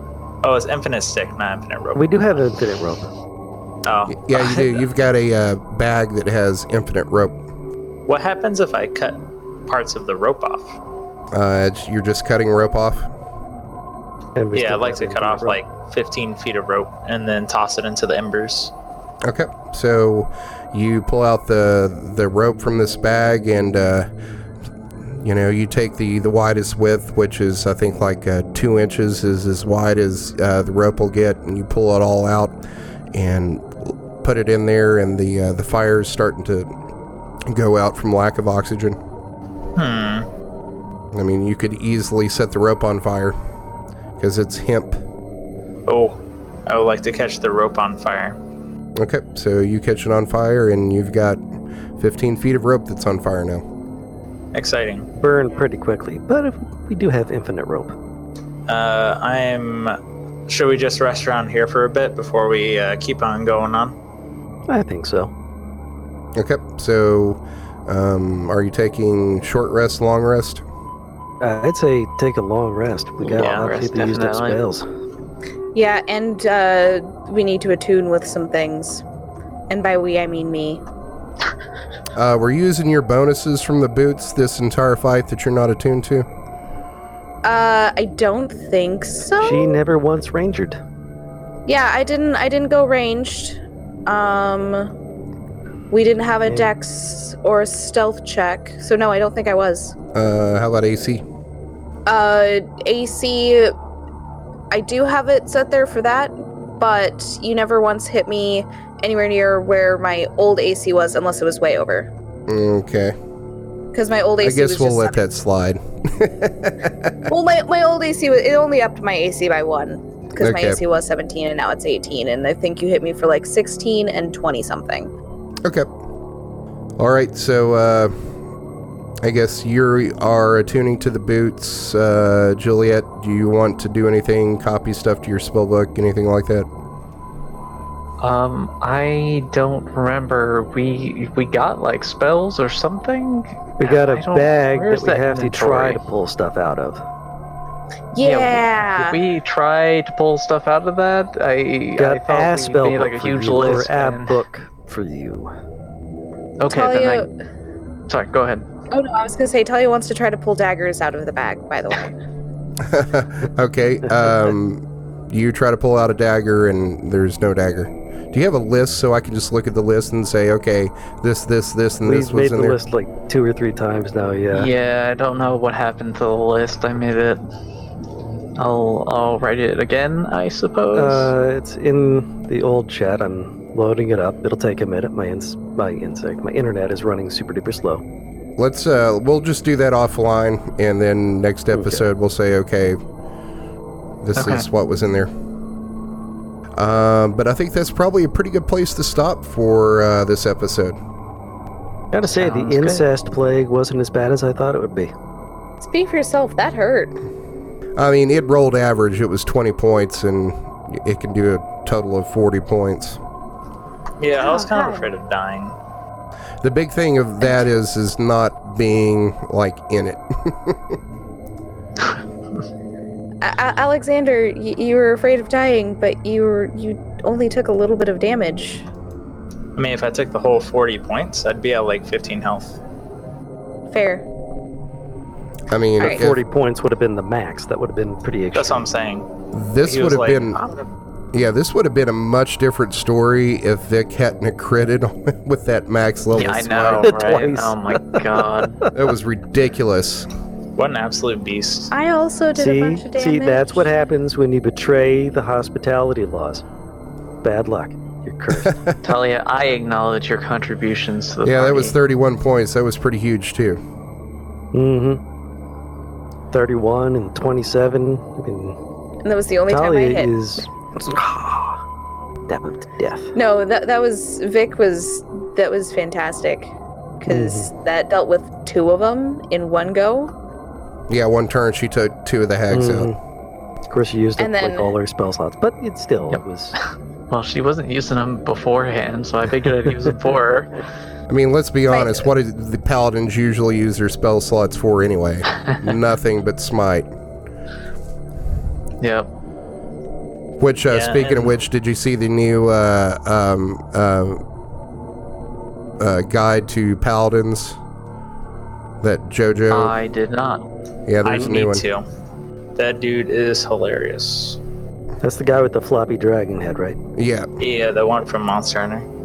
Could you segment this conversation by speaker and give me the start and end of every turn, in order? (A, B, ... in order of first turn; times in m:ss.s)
0:00.4-0:02.1 A
0:01.9-0:03.1 B
0:03.8-0:04.8 A
0:04.1-0:07.4 C
0:08.1-0:10.8 A
0:11.3-0:13.1 C
0:14.4-0:15.6 B
0:14.5-0:18.7 A
0:19.2-0:24.1 C
0:25.0-0:32.6 C
0:33.1-0:36.7 C
0:37.5-0:39.0 C
0:39.8-0:40.3 A
0:41.1-0:43.4 C
0:44.2-0:45.0 C
0:45.9-0:48.4 A
0:49.0-0:51.4 C
0:52.0-0:53.6 C
0:54.5-0:55.1 A
0:55.2-0:57.9 B
0:58.7-1:03.9 A
1:04.7-1:05.3 B
1:06.4-1:10.6 C
1:11.4-1:14.9 B
1:13.3-1:14.6 D
1:13.4-1:13.6 A
1:15.7-1:19.0 E
1:19.7-1:20.8 E
1:22.1-1:26.3 C
1:27.4-1:29.8 E
1:29.3-1:30.8 B
1:31.7-1:34.9 E
1:35.9-1:39.9 E
1:36.4-1:36.7 B
1:40.1-1:41.2 C
1:42.0-1:43.7 E
1:44.7-1:52.1 E
1:52.5-1:53.1 C
1:53.9-1:55.2 E
1:54.4-1:57.3 C
1:57.3-2:05.1 E
2:00.4-2:00.8 C
2:07.0-2:08.1 C
2:09.2-2:16.7 C
2:18.2-2:26.0 D
2:23.8-2:27.0 B
2:28.1-2:29.2 E
2:28.2-2:34.4 D
2:32.0-2:35.5 B
2:36.6-2:37.2 D
2:36.7-2:37.3 E
2:38.1-2:38.6 D
2:38.9-2:42.1 E
2:42.8-2:52.8 C
2:52.0-2:54.7 B
2:54.5-2:57.4 D
2:58.6-3:01.3 D
3:00.9-3:08.0 B
3:08.6-3:13.0 C
3:11.7-3:12.0 B
3:14.2-3:15.3 C
3:14.4-3:14.6 D
3:16.8-3:21.0 C
3:22.1-3:25.1 B
3:22.2-3:23.0 D
3:25.8-3:27.2 E
3:28.0-3:33.2 C
3:34.2-3:35.8 A
3:34.4-3:35.1 E
3:36.6-3:41.0 C
3:43.4-3:48.8 E
3:49.8-3:52.8 A
3:53.9-3:54.2 E
3:55.7-3:56.4 C
3:56.0-3:58.9 B
3:58.5-3:59.3 A
3:59.5-4:00.6 C
3:59.8-4:00.8 A
4:01.3-4:07.2 C
4:06.3-4:08.8 D
4:07.0-4:08.9 B
4:08.9-4:10.3 C
4:10.8-4:11.9 A
4:11.9-4:13.9 E
4:12.5-4:16.6 B
4:17.4-4:18.8 B
4:19.0-4:22.0 D
4:21.4-4:23.8 C
4:24.7-4:25.2 B
4:26.5-4:28.8 B
4:29.2-4:30.3 E
4:29.7-4:31.8 B
4:32.5-4:33.3 B
4:33.3-4:40.3 E
4:37.2-4:37.7 B
4:41.1-4:43.1 C
4:42.7-4:43.2 B
4:43.9-4:46.7 B
4:44.4-4:44.9 E
4:46.3-4:50.8 D
4:49.6-4:50.2 B
4:51.3-4:57.1 C
4:51.9-4:52.3 E
4:59.0-4:59.3 D
5:00.6-5:04.4 C
5:00.9-5:01.6 A
5:06.0-5:07.8 C
5:09.0-5:09.9 C
5:09.7-5:10.6 D
5:11.1-5:11.8 C
5:11.2-5:12.0 A
5:12.8-5:14.6 A
5:15.2-5:17.0 B
5:17.2-5:17.5 C
5:17.6-5:19.1 A